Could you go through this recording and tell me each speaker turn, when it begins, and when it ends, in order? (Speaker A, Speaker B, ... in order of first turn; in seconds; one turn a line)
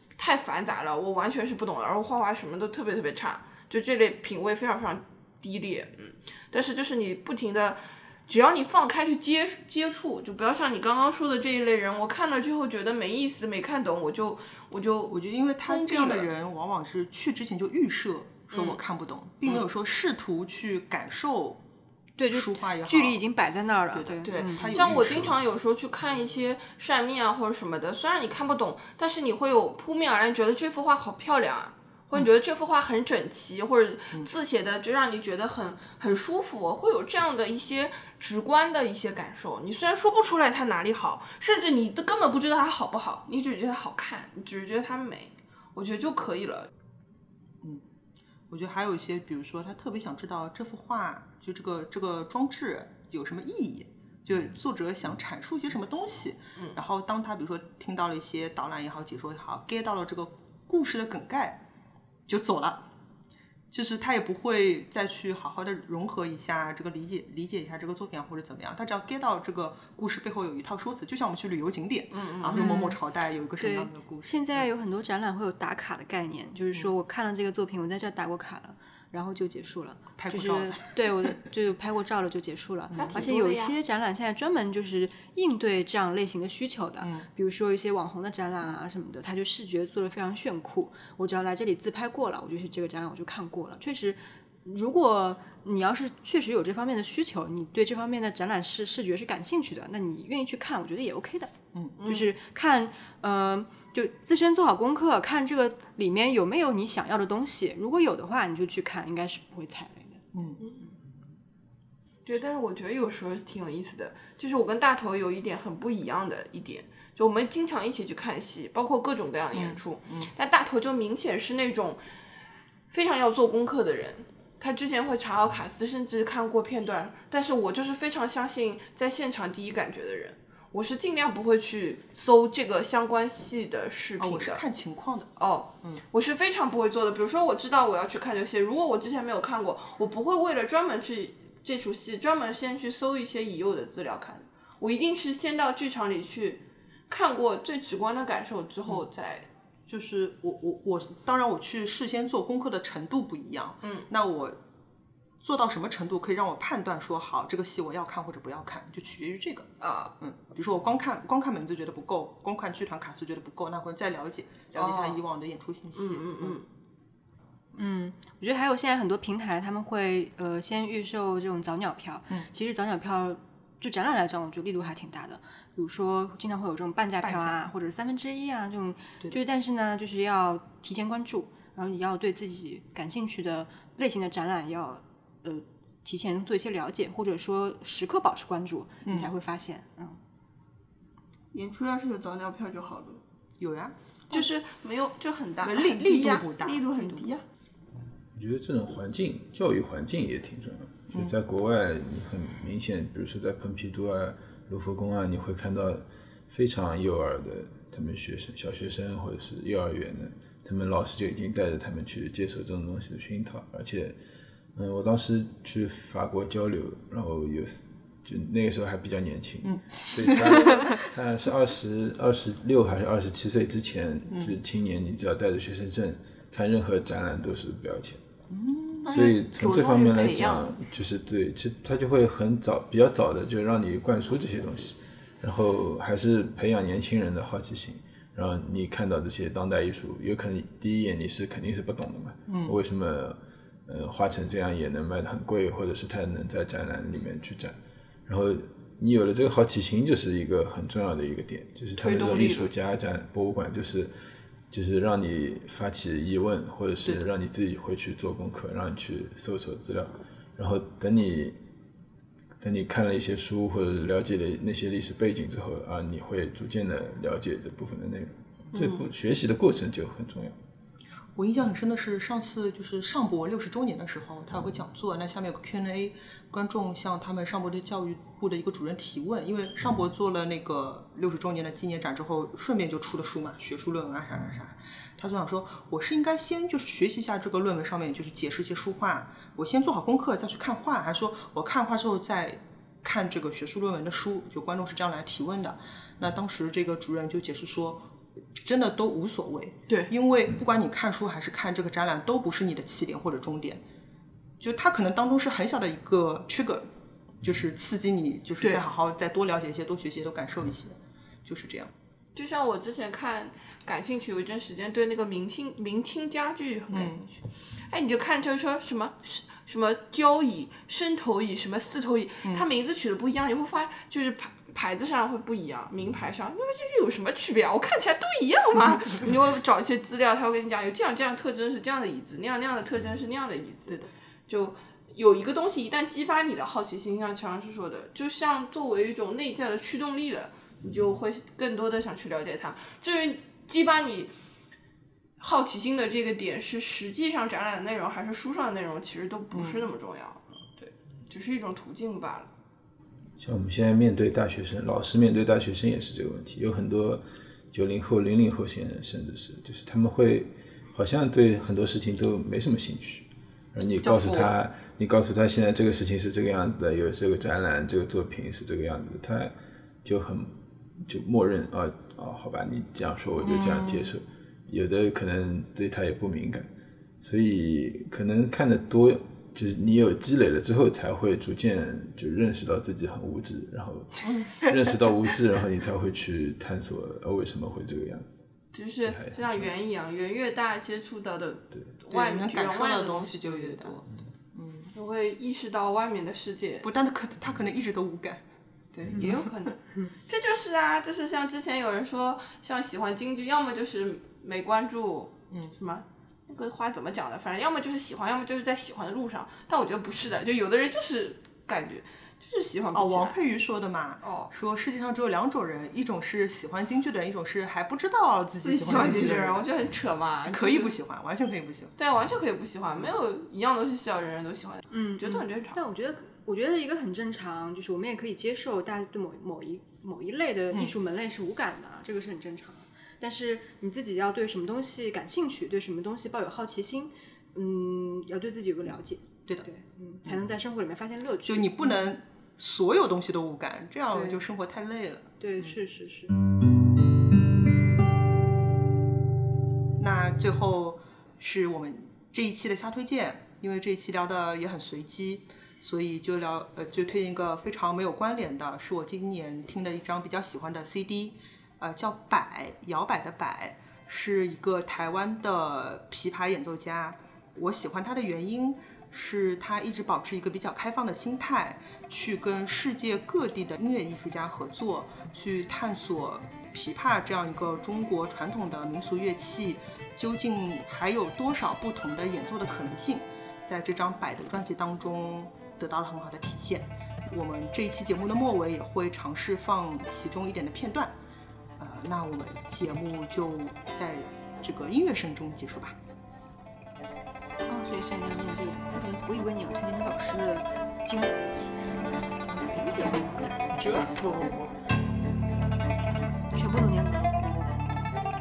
Speaker A: 0.2-16.3
Speaker B: 15.1-21.6
Speaker A: 18.5-18.8
Speaker C: 22.2-24.8
Speaker B: 22.3-23.2
Speaker B: 23.9-25.3
Speaker A: 24.2-46.7
Speaker D: 24.9-25.3
Speaker B: 48.5-61.6
Speaker B: 62.3-62.9
Speaker B: 63.7-74.7
Speaker A: 72.1-72.9
Speaker C: 72.5-72.9
Speaker C: 73.6-110.2
Speaker B: 80.2-81.4
Speaker B: 82.9-83.2
Speaker A: 82.9-83.8
Speaker B: 87.0-87.3
Speaker A: 102.0-102.3
Speaker B: 110.3-110.6
Speaker A: 112.2-122.0
Speaker B: 119.5-120.3
Speaker A: 122.9-134.6
Speaker B: 134.2-135.3
Speaker A: 135.4-149.5
Speaker B: 149.9-154.6
Speaker B: 155.4-166.6
Speaker A: 159.8-160.1
Speaker A: 164.7-165.2
Speaker A: 165.9-166.7
Speaker C: 167.7-190.2
Speaker B: 177.2-177.7
Speaker B: 189.0-189.3
Speaker A: 191.5-193.2
Speaker B: 193.6-194.5
Speaker A: 194.3-197.4
Speaker B: 195.6-197.2
Speaker D: 198.3-214.2
Speaker D: 214.8-228.2
Speaker B: 219.6-220.9
Speaker B: 224.3-224.6
Speaker B: 228.5-229.1
Speaker A: 229.0-230.7
Speaker D: 229.0-254.1
Speaker B: 242.5-242.8
Speaker A: 251.9-252.7
Speaker D: 254.7-261.6
Speaker D: 262.6-270.6
Speaker A: 268.7-269.0
Speaker B: 271.4-303.8
Speaker B: 304.6-306.9
Speaker B: 307.4-311.9
Speaker A: 312.3-344.3
Speaker B: 316.9-317.2
Speaker A: 345.4-352.5
Speaker B: 349.5-349.9
Speaker D: 353.4-369.5
Speaker A: 364.0-364.6
Speaker D: 370.0-376.7
Speaker B: 373.4-374.1
Speaker D: 377.2-388.3
Speaker A: 388.7-394.0
Speaker D: 389.0-389.7
Speaker B: 392.1-394.0
Speaker B: 394.5-394.9
Speaker A: 394.9-396.9
Speaker B: 396.8-398.4
Speaker A: 398.9-413.4
Speaker B: 412.9-419.7
Speaker A: 414.2-414.5
Speaker A: 418.6-421.0
Speaker B: 420.4-421.9
Speaker A: 422.0-425.8
Speaker C: 424.9-442.1
Speaker B: 441.4-445.4
Speaker C: 444.1-444.4
Speaker C: 445.4-446.3
Speaker B: 450.0-491.1
Speaker B: 491.8-496.0
Speaker C: 497.6-504.1
Speaker B: 503.7-504.7
Speaker C: 506.5-507.8